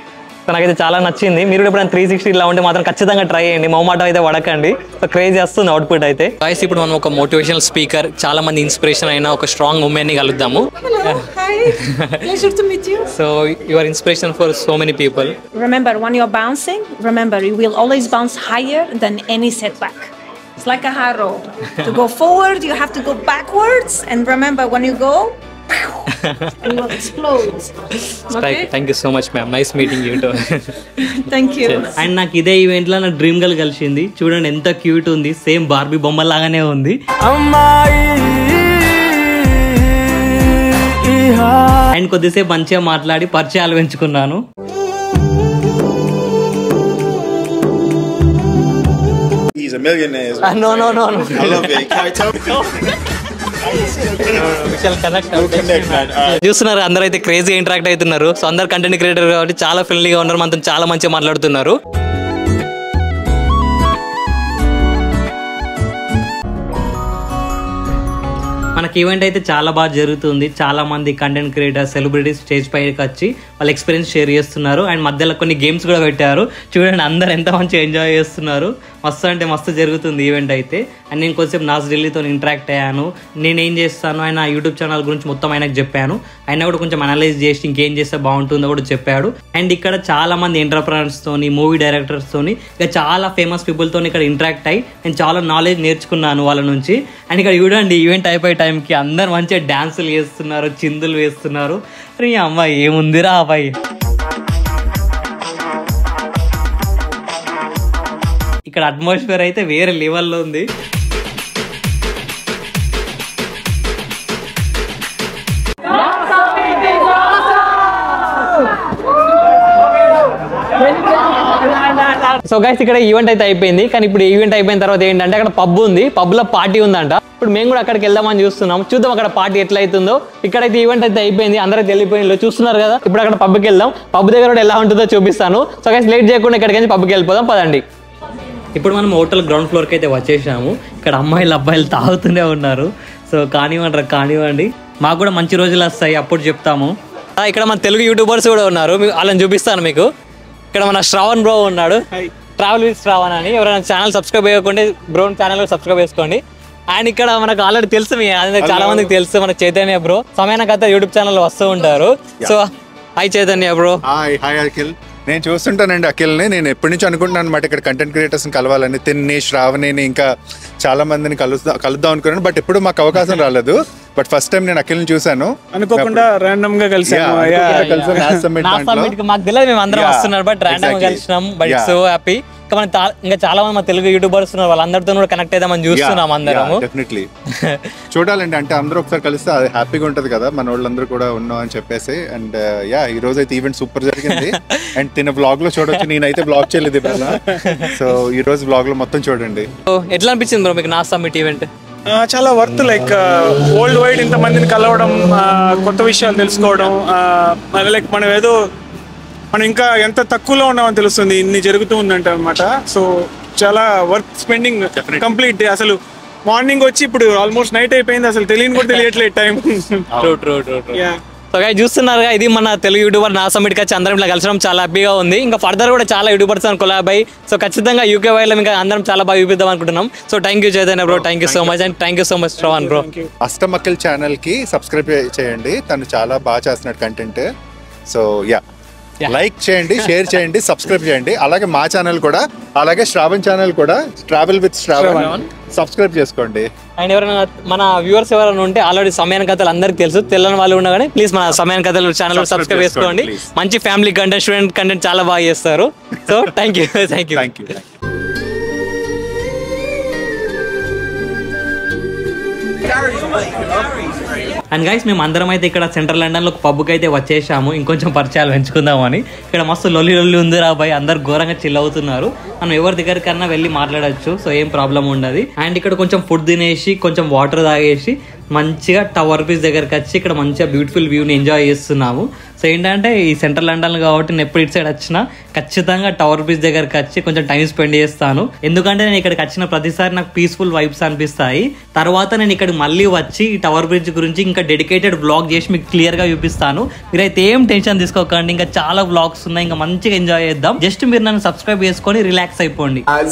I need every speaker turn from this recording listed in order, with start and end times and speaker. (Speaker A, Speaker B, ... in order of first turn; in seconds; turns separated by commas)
Speaker A: 0.5-12.3, Speaker B: 10.8-13.1, Speaker A: 13.1-15.3, Speaker B: 15.5-26.1, Speaker A: 26.2-26.5, Speaker B: 26.6-27.7, Speaker A: 28.3-30.8, Speaker B: 28.3-28.7, Speaker B: 31.0-32.1, Speaker A: 31.6-37.0, Speaker A: 41.9-44.4, Speaker C: 49.6-52.3, Speaker A: 50.4-52.9, Speaker A: 54.2-61.7, Speaker C: 55.4-56.3, Speaker A: 68.8-103.7, Speaker A: 108.7-110.7, Speaker A: 122.1-137.8, Speaker A: 138.8-150.1, Speaker A: 150.7-152.0, Speaker A: 152.6-162.7, Speaker D: 158.6-159.1, Speaker A: 163.2-164.0, Speaker D: 164.1-170.3, Speaker D: 170.8-176.3, Speaker E: 175.7-178.4, Speaker D: 177.1-179.2, Speaker A: 177.6-186.8, Speaker D: 179.9-181.9, Speaker D: 185.9-187.3, Speaker D: 188.1-199.7, Speaker A: 194.3-194.9, Speaker A: 199.9-201.7, Speaker E: 202.1-208.5, Speaker E: 209.5-220.1, Speaker D: 214.9-215.3, Speaker A: 218.8-219.1, Speaker A: 220.2-233.1, Speaker E: 220.9-221.2, Speaker E: 232.6-233.3, Speaker D: 233.4-237.5, Speaker D: 238.1-238.6, Speaker A: 239.2-240.1, Speaker D: 239.3-246.7, Speaker A: 245.0-245.4, Speaker A: 247.0-257.5, Speaker D: 252.3-253.5, Speaker D: 257.3-257.8, Speaker A: 264.7-303.0